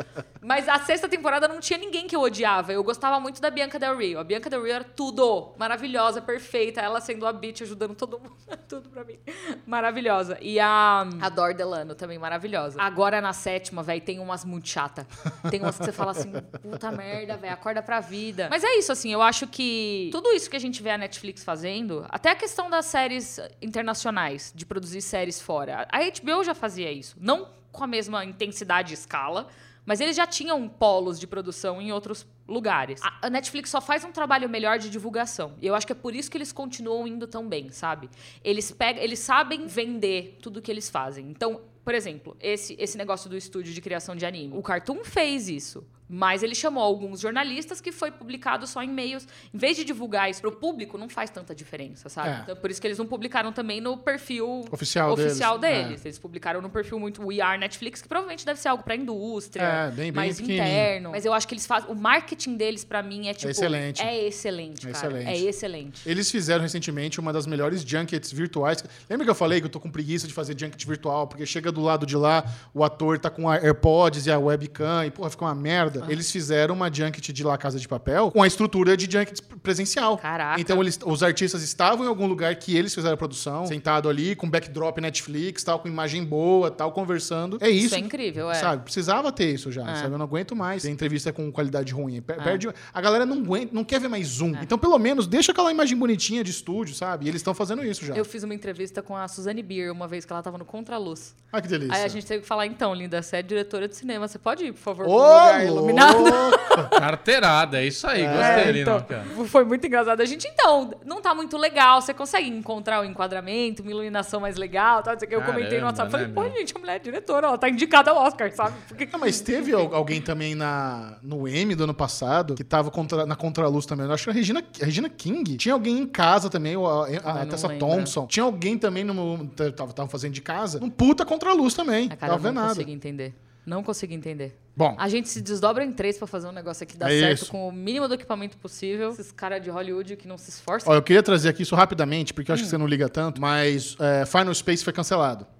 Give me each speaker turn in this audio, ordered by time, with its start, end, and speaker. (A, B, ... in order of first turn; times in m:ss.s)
0:00.4-1:06.0 A
0:52.2-0:52.5 B
0:54.7-0:56.0 B
0:59.6-1:00.9 B
1:03.4-1:04.1 B
1:04.8-1:05.5 B
1:06.0-1:38.2 B
1:20.2-1:20.8 A
1:27.7-1:28.7 A
1:29.8-1:30.1 A
1:38.1-1:41.3 A
1:41.5-1:42.2 B
1:41.9-1:47.0 A
1:45.0-1:46.9 B
1:46.8-1:49.3 C
1:48.1-1:48.8 B
1:48.3-1:59.9 A
1:55.3-1:56.6 C
1:59.1-2:12.9 B
2:07.2-2:08.1 A
2:12.1-2:20.9 A
2:17.0-2:17.5 B
2:20.8-2:25.5 B
2:22.5-2:22.8 A